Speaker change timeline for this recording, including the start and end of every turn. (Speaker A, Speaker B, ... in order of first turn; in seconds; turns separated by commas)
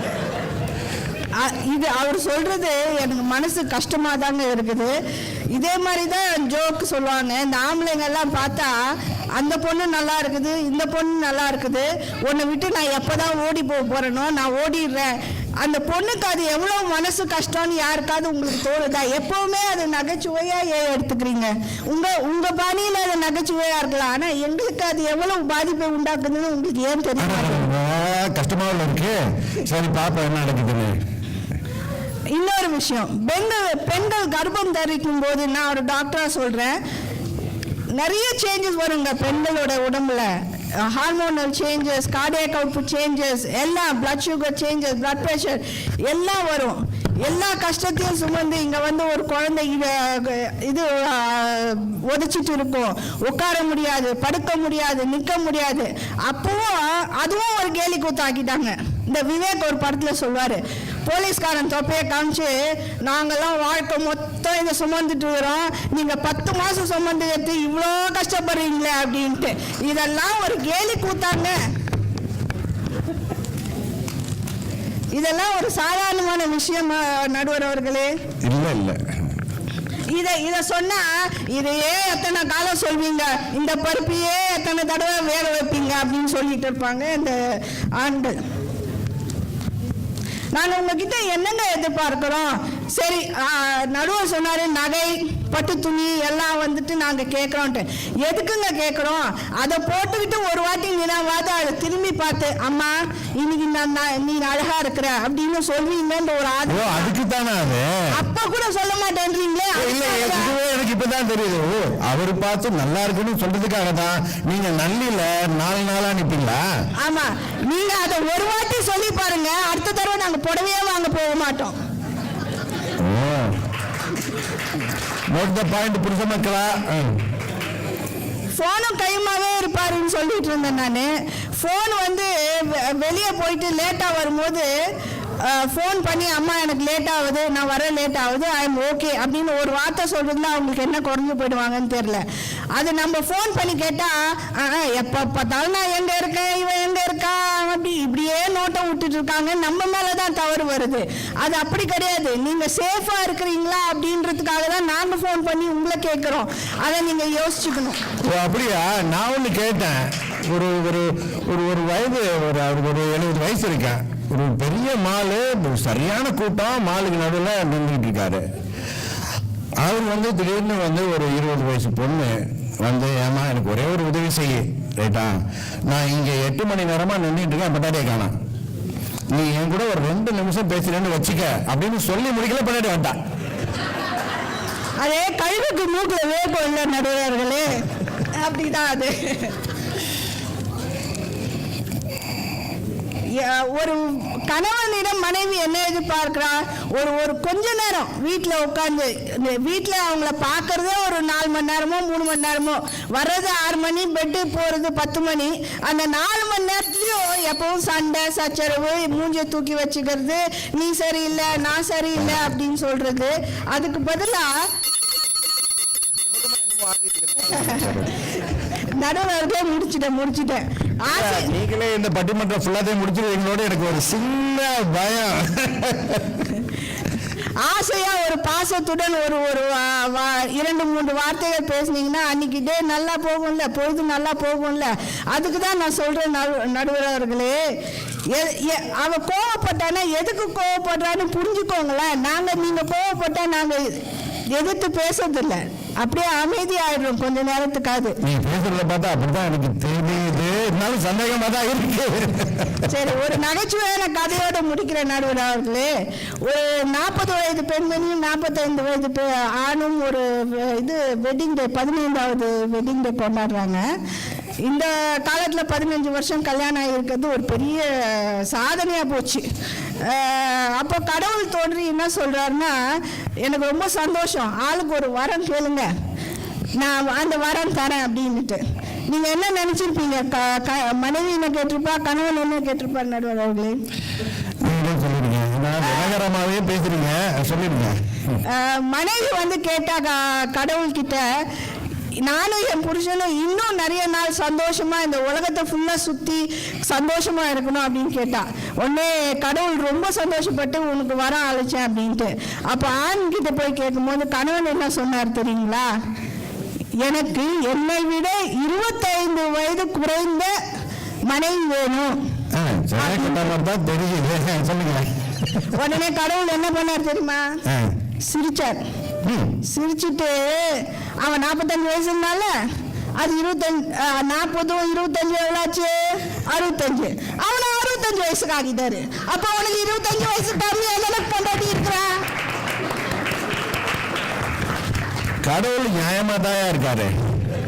Speaker A: 1.4-5.0, Speaker A: 5.5-27.7, Speaker B: 27.2-30.9, Speaker A: 32.3-36.8, Speaker A: 38.0-71.6, Speaker A: 75.1-78.1, Speaker B: 78.4-79.0, Speaker A: 80.1-88.4, Speaker A: 90.5-107.1, Speaker B: 106.7-107.9, Speaker A: 108.1-110.5, Speaker B: 109.7-116.6, Speaker A: 117.0-121.8, Speaker B: 123.0-123.5, Speaker B: 125.3-127.2, Speaker A: 128.6-134.7, Speaker A: 135.4-158.0, Speaker B: 158.2-168.4, Speaker B: 169.8-175.3, Speaker B: 175.9-178.3, Speaker B: 179.3-183.2, Speaker A: 185.0-189.6, Speaker A: 193.3-214.6, Speaker B: 216.4-218.2, Speaker A: 217.5-218.0, Speaker A: 218.7-221.5, Speaker B: 221.1-226.5, Speaker A: 227.6-237.6, Speaker A: 238.3-244.0, Speaker A: 244.5-248.2, Speaker B: 248.2-252.8, Speaker A: 252.9-255.9, Speaker A: 256.4-263.8, Speaker A: 264.6-269.4, Speaker A: 270.0-275.9, Speaker A: 276.8-283.8, Speaker B: 284.6-288.4, Speaker A: 288.5-291.3, Speaker A: 292.2-305.9, Speaker A: 307.0-310.5, Speaker A: 311.3-312.2, Speaker B: 312.5-315.7, Speaker A: 313.0-313.6, Speaker A: 315.7-317.6, Speaker B: 317.6-317.9, Speaker A: 318.3-318.8, Speaker B: 319.2-319.6, Speaker A: 319.6-322.6, Speaker A: 323.2-332.1, Speaker B: 335.4-337.1